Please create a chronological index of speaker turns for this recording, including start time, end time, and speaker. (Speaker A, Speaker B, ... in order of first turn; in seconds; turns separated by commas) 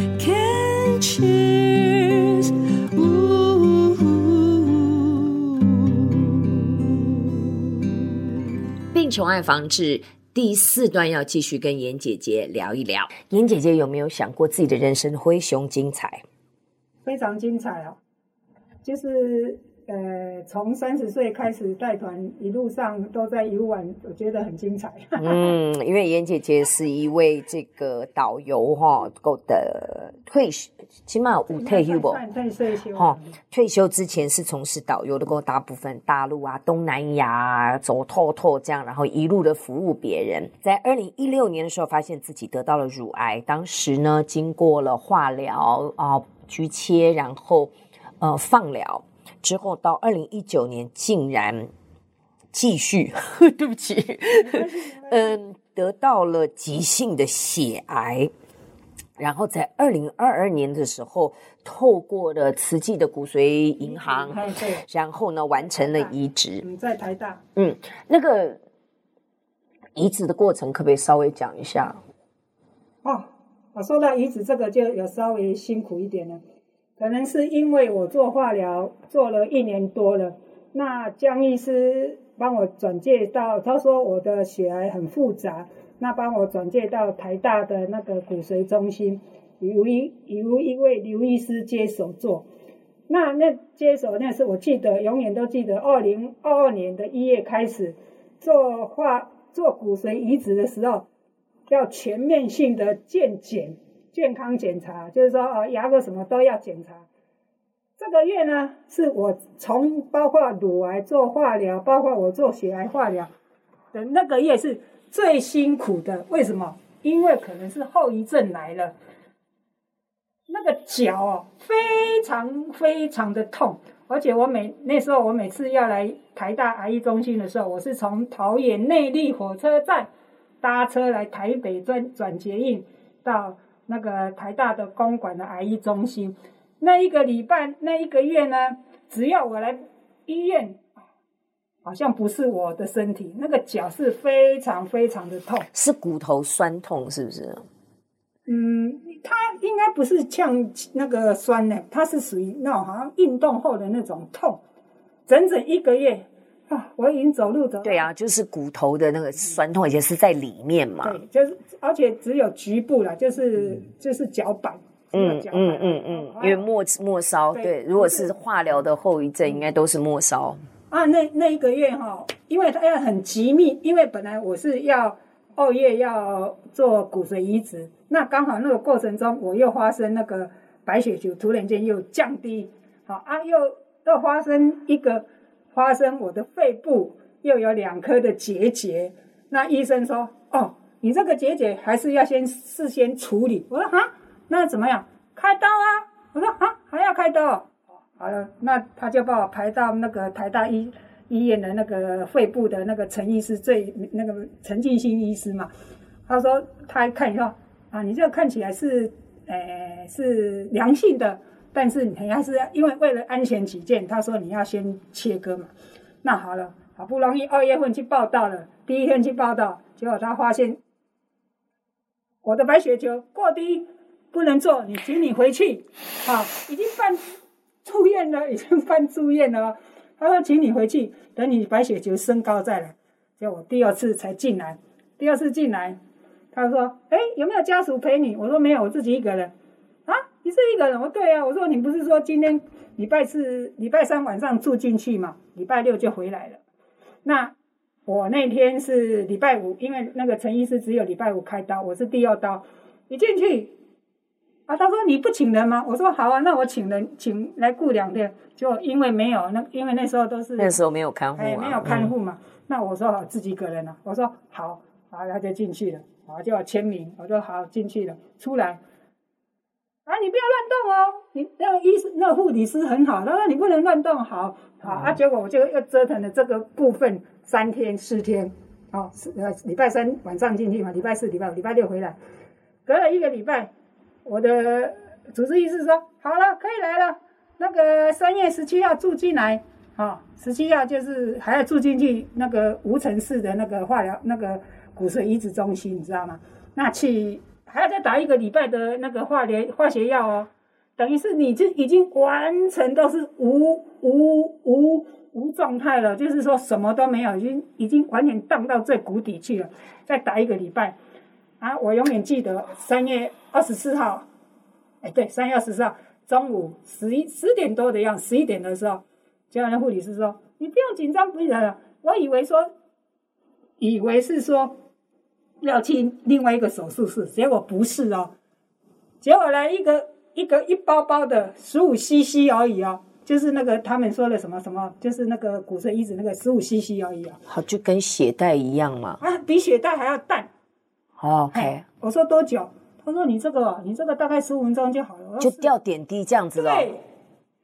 Speaker A: 0.1-7.0, Speaker A: 8.9-16.2, Speaker B: 17.0-18.0, Speaker B: 18.8-25.5, Speaker A: 25.2-32.2, Speaker B: 31.5-33.4, Speaker A: 32.9-51.7, Speaker A: 52.5-58.3, Speaker B: 54.4-55.4, Speaker A: 59.2-66.6, Speaker B: 63.8-64.8, Speaker B: 65.6-67.4, Speaker A: 67.5-68.6, Speaker A: 69.9-72.0, Speaker B: 73.0-76.4, Speaker B: 77.0-92.5, Speaker B: 93.1-101.1, Speaker B: 101.7-107.0, Speaker B: 108.0-113.3, Speaker B: 113.9-118.9, Speaker B: 120.5-130.1, Speaker B: 130.6-140.9, Speaker B: 141.8-145.7, Speaker A: 145.7-147.6, Speaker B: 148.5-154.6, Speaker B: 155.3-158.1, Speaker A: 157.8-161.2, Speaker B: 161.0-166.6, Speaker A: 165.1-170.6, Speaker B: 167.5-168.3, Speaker B: 170.9-205.7, Speaker B: 206.3-215.7, Speaker B: 216.2-220.8, Speaker B: 222.4-227.2, Speaker B: 227.8-236.0, Speaker B: 236.5-239.5, Speaker B: 240.1-246.6, Speaker B: 247.2-247.5, Speaker B: 248.1-253.7, Speaker B: 254.7-260.8, Speaker A: 260.6-262.1, Speaker B: 261.4-268.8, Speaker B: 270.1-282.2, Speaker B: 282.9-283.7, Speaker B: 284.2-310.9, Speaker B: 311.6-314.3, Speaker B: 315.0-322.7, Speaker B: 323.8-324.7, Speaker B: 325.6-328.3, Speaker B: 329.2-337.4, Speaker A: 337.4-339.2, Speaker B: 339.2-340.5, Speaker A: 341.2-341.8, Speaker B: 341.5-345.7, Speaker A: 345.4-346.9, Speaker B: 346.5-347.0